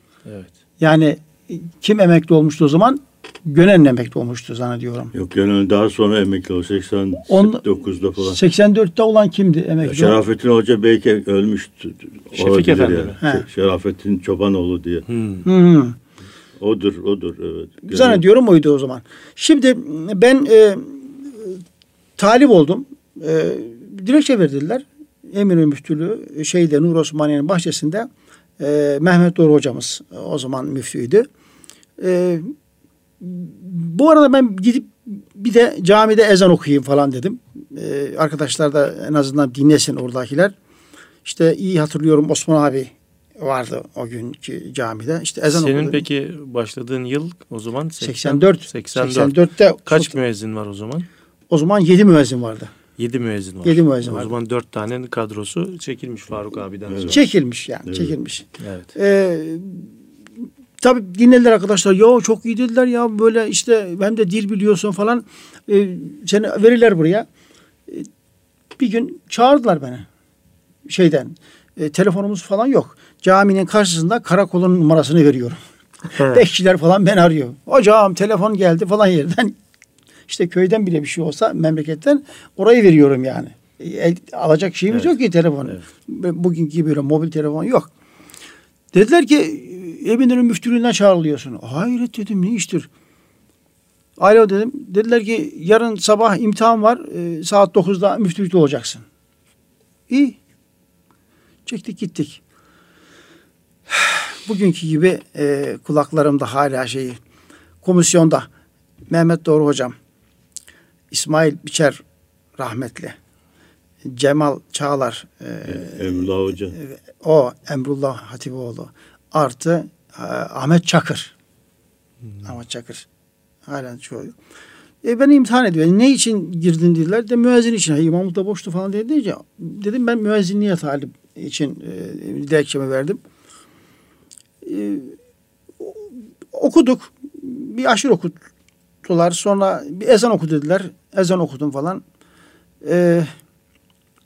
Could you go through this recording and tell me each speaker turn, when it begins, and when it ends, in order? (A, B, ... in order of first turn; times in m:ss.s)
0:00.2-0:00.5 A
0:00.8-0:05.1 B
0:05.1-0:08.4 C
0:07.3-0:07.6 B
0:08.2-0:10.2 B
0:09.8-0:15.0 C
0:12.4-0:13.2 A
0:15.1-0:15.4 A
0:15.4-0:16.0 B
0:16.6-0:18.2 C
0:17.9-0:21.6 B
0:22.2-0:31.2 B
0:32.0-0:32.5 B
0:33.2-0:40.5 B
0:41.2-0:46.0 B
0:45.5-0:51.1 A
0:48.0-0:50.1 B
0:51.5-0:52.7 B
0:53.0-0:57.2 A
0:53.6-0:54.3 B
0:56.9-0:57.2 C
0:57.0-0:59.9 B
0:57.9-0:58.1 C
0:58.6-0:58.9 A
1:00.8-1:07.2 B
1:08.8-1:10.0 B
1:10.9-1:19.6 B
1:20.3-1:27.9 B
1:28.9-1:32.9 B
1:34.2-1:39.0 B
1:40.1-1:40.4 B
1:41.6-1:42.4 B
1:43.9-1:47.2 B
1:47.8-1:48.5 B
1:49.1-1:49.9 B
1:51.1-1:52.0 B
1:52.6-1:53.1 B
1:54.0-2:01.3 B
1:55.6-1:56.8 C
2:02.4-2:03.0 B
2:03.7-2:04.3 B
2:05.0-2:13.2 B
2:14.6-2:15.1 B
2:16.5-2:18.4 B
2:19.0-2:22.0 B
2:22.8-2:23.3 B